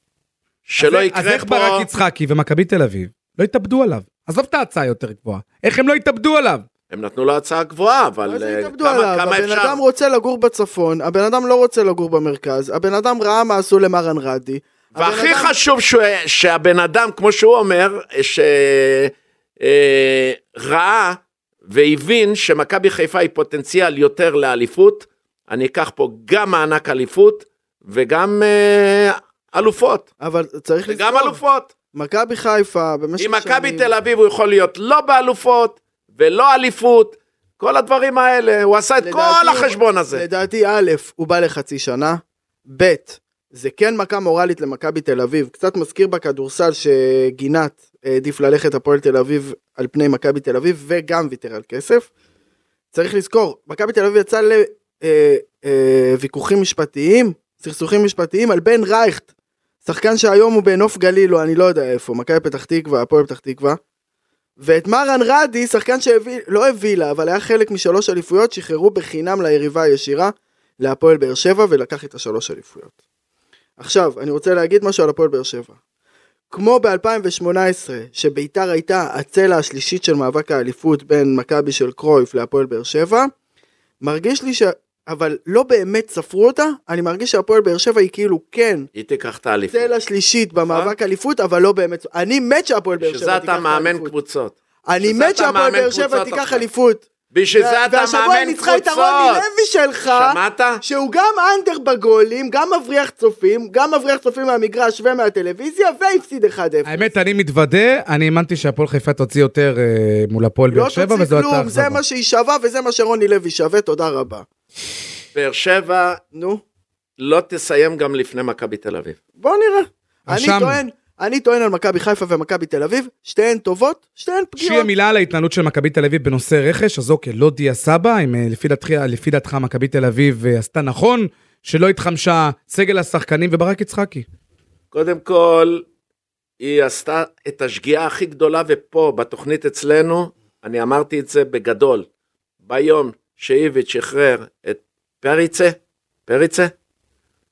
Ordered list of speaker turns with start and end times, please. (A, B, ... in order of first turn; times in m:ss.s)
0:00.7-0:01.9 A
0:00.8-0:06.7 B
0:06.9-0:09.8 A
0:08.3-0:15.6 C
0:14.9-0:30.1 A
0:30.2-0:31.4 C
0:30.9-0:31.7 A
0:31.9-0:33.9 C
0:33.2-0:40.2 A
0:39.0-0:52.1 C
0:52.9-0:59.3 C
0:59.8-1:03.8 C
1:04.6-1:12.9 C
1:13.8-1:15.8 C
1:16.5-1:23.3 C
1:24.0-1:28.9 C
1:29.0-1:29.9 A
1:29.7-1:34.1 C
1:30.7-1:30.9 A
1:33.0-1:36.6 A
1:34.9-1:47.1 C
1:37.3-1:39.4 A
1:40.1-1:40.8 A
1:46.9-1:52.0 B
1:50.7-1:54.5 C
1:55.4-1:56.2 A
1:56.3-1:56.6 C
1:57.2-1:59.2 A
1:59.4-2:04.9 C
2:00.3-2:00.8 B
2:04.6-2:14.3 B
2:14.9-2:15.8 A
2:16.6-2:22.1 A
2:22.6-2:25.8 A
2:26.3-2:26.7 A